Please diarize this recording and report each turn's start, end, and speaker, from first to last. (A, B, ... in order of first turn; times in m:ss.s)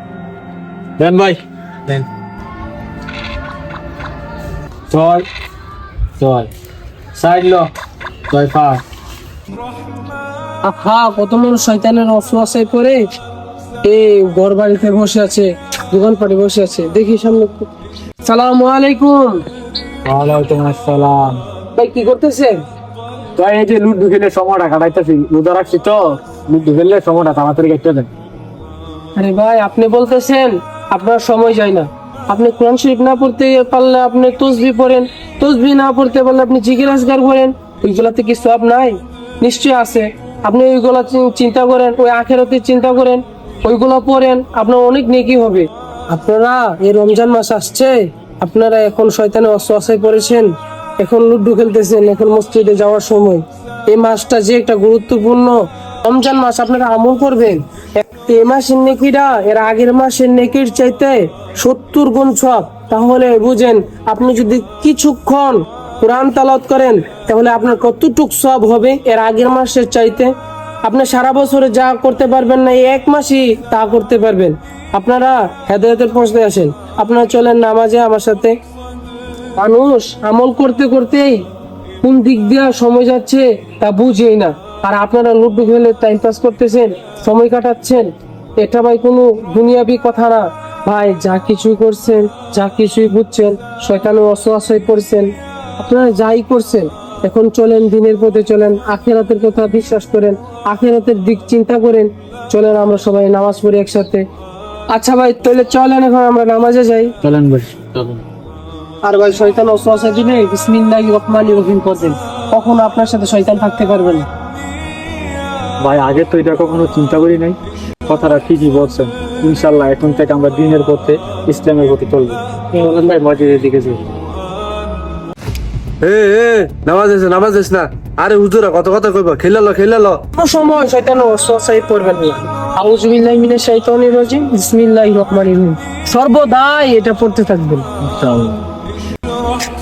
0:01.0-0:02.0 A
0:04.9-0:05.3 A
0:06.2-0:06.5 A
0:07.2-0:07.7 A
0:08.3-0:08.8 A
0:10.6-0:13.0 B
0:13.8-0:17.7 B
0:18.2-0:19.4 B
0:20.0-0:21.4 A
0:21.8-0:22.6 B
0:23.4-0:28.1 A
0:29.2-0:50.5 B
0:51.0-1:10.3 B
1:10.9-1:18.6 B
1:19.6-1:21.4 B
1:22.0-1:28.1 B
1:28.6-1:44.2 B
1:44.9-1:47.1 B
1:47.2-1:48.2 A
1:49.0-1:54.3 B
1:55.8-2:03.9 A
2:06.0-2:10.2 C
2:10.4-2:17.9 B
2:18.0-2:18.6 A